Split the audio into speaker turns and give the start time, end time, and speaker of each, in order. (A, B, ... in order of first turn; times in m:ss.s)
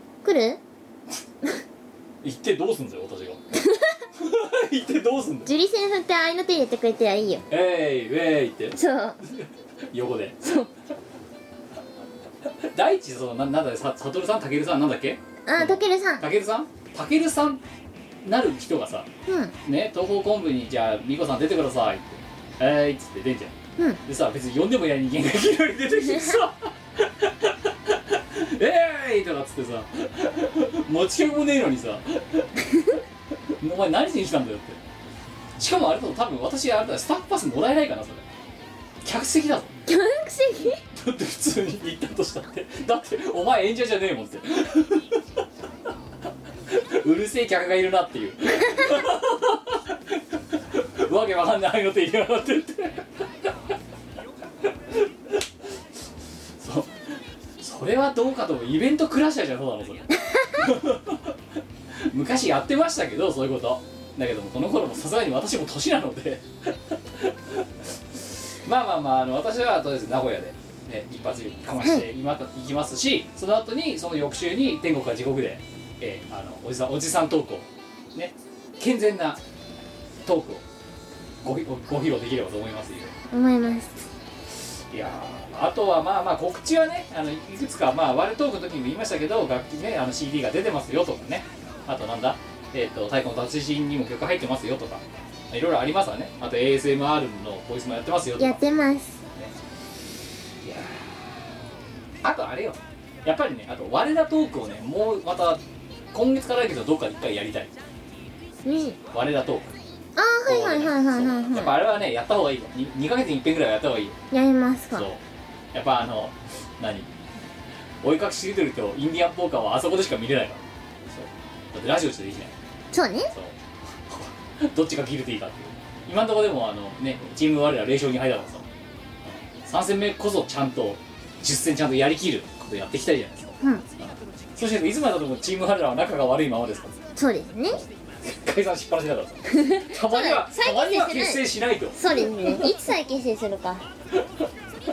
0:00.2-0:00.6 A
0:02.2-0:03.4 B
0:03.5-0:04.0 A
0:04.2-0:05.5 B
0:05.4-0:07.4 A
0:07.5-0:10.4 B
0:08.7-0:09.2 A
0:10.4-0:10.7 A
0:12.4-0:17.6 B
0:15.4-0:16.3 A
0:18.2-0:19.1 B
0:19.3-0:19.5 A
0:19.6-0:34.8 B
0:35.6-0:38.2 B
0:39.0-0:39.7 B
0:39.9-0:40.8 A
0:40.9-0:45.2 B
0:46.6-0:53.5 B
0:54.6-0:55.4 B
0:56.6-1:01.4 B
1:02.0-1:19.4 B
1:11.8-1:12.1 A
1:20.2-1:20.6 B
1:21.4-1:23.1 B
1:23.3-1:24.0 A
1:24.9-1:38.6 B
1:38.4-1:39.2 A
1:40.6-1:41.1 B
1:42.2-1:47.7 B
1:48.6-1:49.0 A
1:49.1-1:49.8 B
1:50.2-1:51.7 A
1:50.5-1:54.2 B
1:54.3-1:55.1 A
1:54.9-1:55.2 B
1:55.7-1:57.1 B
1:58.0-2:02.5 B
2:02.9-2:03.3 A
2:03.3-2:08.6 B
2:09.2-2:16.9 B
2:17.2-2:17.8 A
2:18.2-2:22.7 B
2:19.5-2:23.8 A
2:24.2-2:24.5 B